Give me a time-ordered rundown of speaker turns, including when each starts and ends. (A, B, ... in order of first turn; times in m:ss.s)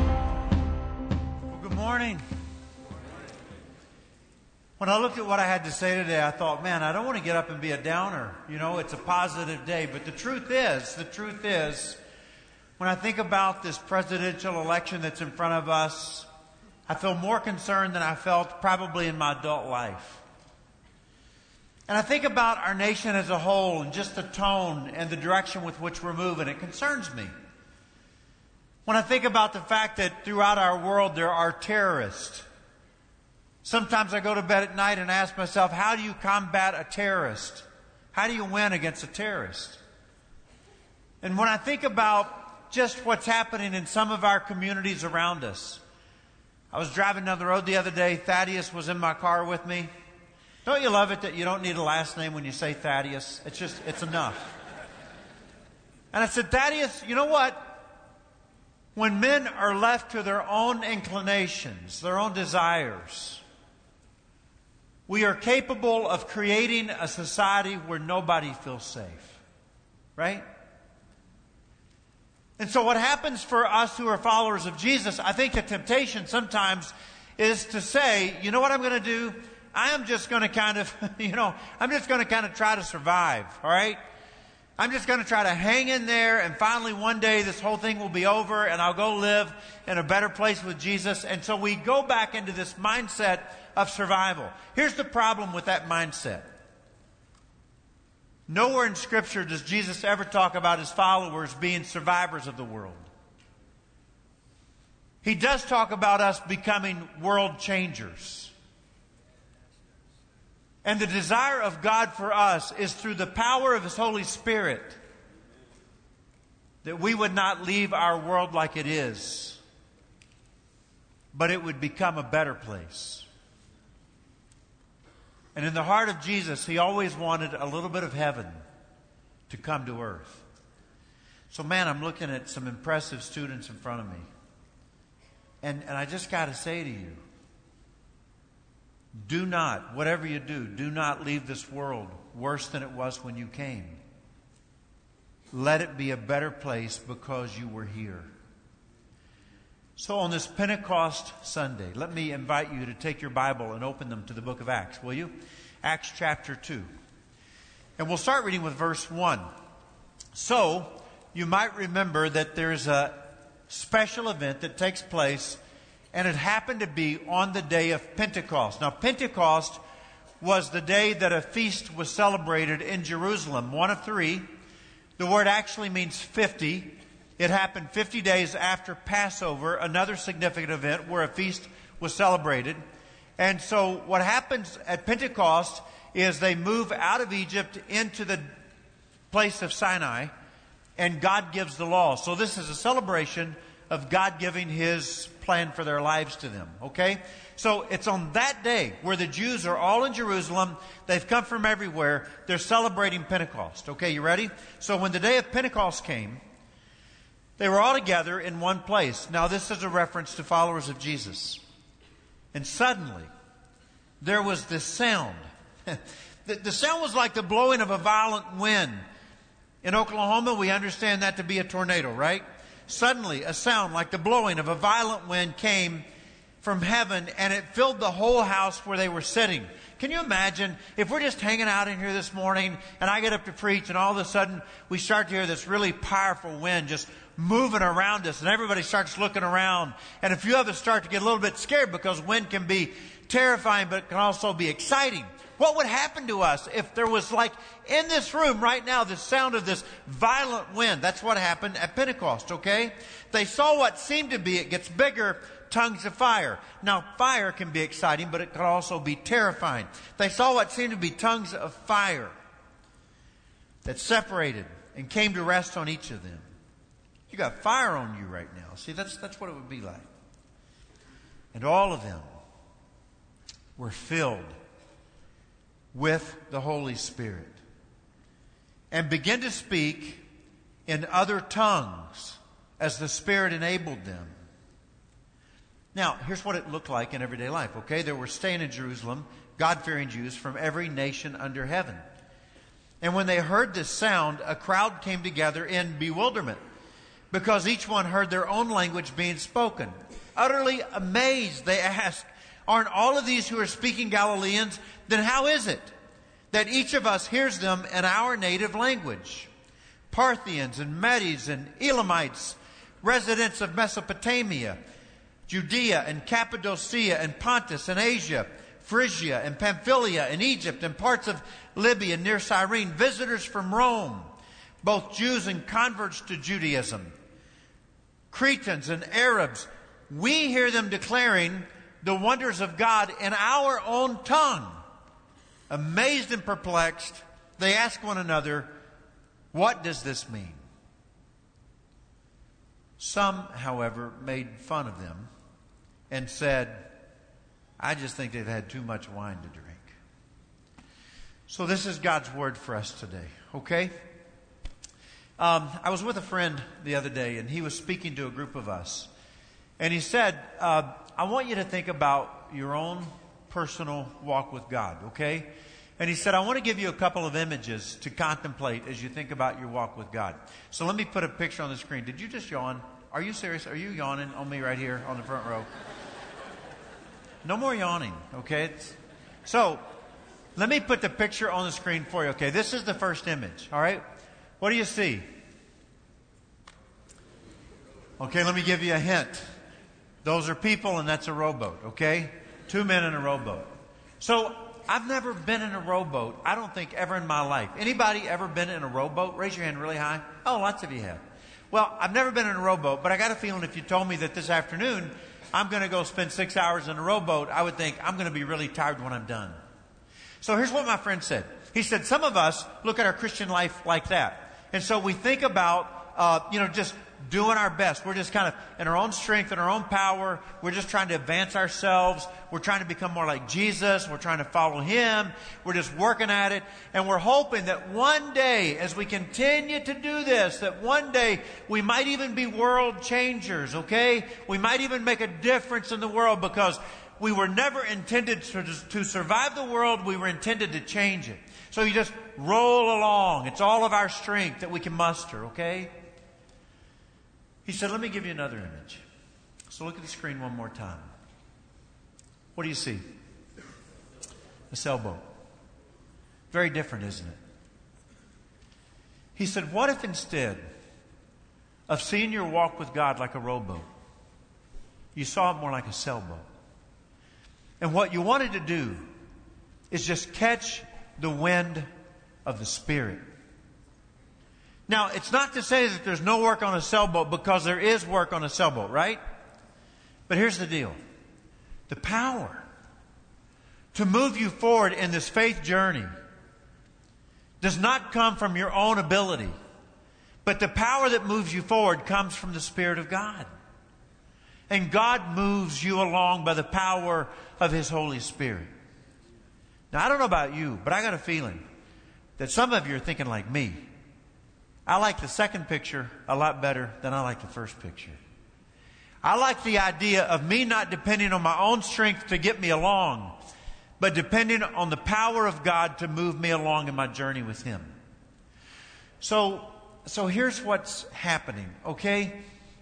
0:01.5-0:02.2 A
0:04.8-0:12.0 A
0:12.8-0:16.3 A
0:16.9-0:20.2 A
0:21.9-0:27.3 A
0:28.9-0:32.4 A
0:33.6-0:39.8 A
0:41.2-0:45.8 A
0:46.7-0:49.9 A
0:50.6-0:54.5 A
0:56.1-0:57.8 A
0:59.0-1:03.4 A
1:05.1-1:09.4 A
1:10.2-1:10.4 A
1:12.6-1:24.0 A
1:24.8-1:36.5 A
1:38.5-1:43.1 A
1:45.2-1:48.5 A
1:50.8-1:55.0 A
1:56.8-1:59.6 A
2:01.3-2:03.2 A
2:05.5-2:08.6 A
2:09.5-2:10.4 A
2:11.5-2:14.2 A
2:15.6-2:17.2 A
2:19.2-2:24.0 A
2:25.5-2:28.3 A
2:30.0-2:36.9 A
2:38.0-2:39.5 A
2:40.3-2:45.6 A
2:46.1-2:49.8 A
2:50.4-2:54.5 A
2:55.2-3:02.8 A
3:03.4-3:08.5 A
3:09.3-3:10.3 A
3:11.0-3:26.4 A
3:27.6-3:31.6 A
3:32.5-3:33.3 A
3:34.2-3:39.0 A
3:39.8-3:46.0 A
3:46.6-4:22.3 A
4:23.8-4:26.4 A
4:27.3-4:30.1 A
4:31.5-4:32.3 A
4:33.8-4:34.5 A
4:35.9-4:37.6 A
4:38.9-4:40.2 A
4:40.9-4:44.3 A
4:45.9-4:52.0 A
4:53.0-4:56.6 A
4:57.3-5:05.9 A
5:06.5-5:09.5 A
5:10.1-5:14.8 A
5:15.5-5:24.3 A
5:24.8-5:27.1 A
5:28.3-5:34.8 A
5:35.7-5:38.7 A
5:39.5-5:40.6 A
5:43.0-5:45.3 A
5:46.1-5:46.9 A
5:47.8-5:49.9 A
5:51.5-5:53.9 A
5:55.4-5:59.1 A
5:59.8-6:15.7 A
6:17.4-6:19.8 A
6:20.6-6:24.0 A
6:24.6-6:25.3 A
6:28.2-6:29.5 A
6:30.2-6:49.6 A
6:50.4-7:25.9 A
7:27.6-7:29.0 A
7:29.7-7:31.1 A
7:32.5-7:33.0 A
7:34.7-7:35.3 A
7:36.5-7:37.4 A
7:39.4-7:40.6 A
7:41.9-7:43.9 A
7:45.1-7:46.5 A
7:47.8-7:49.1 A
7:49.9-7:51.9 A
7:52.4-7:53.2 A
7:54.9-7:59.2 A
8:00.3-8:01.0 A
8:01.9-8:02.6 A
8:03.9-8:06.1 A
8:07.6-8:09.5 A
8:10.4-8:13.5 A
8:14.7-8:18.7 A
8:19.9-8:21.6 A
8:22.4-8:23.9 A
8:24.9-8:28.2 A
8:29.2-8:33.4 A
8:34.0-8:37.9 A
8:39.2-8:42.4 A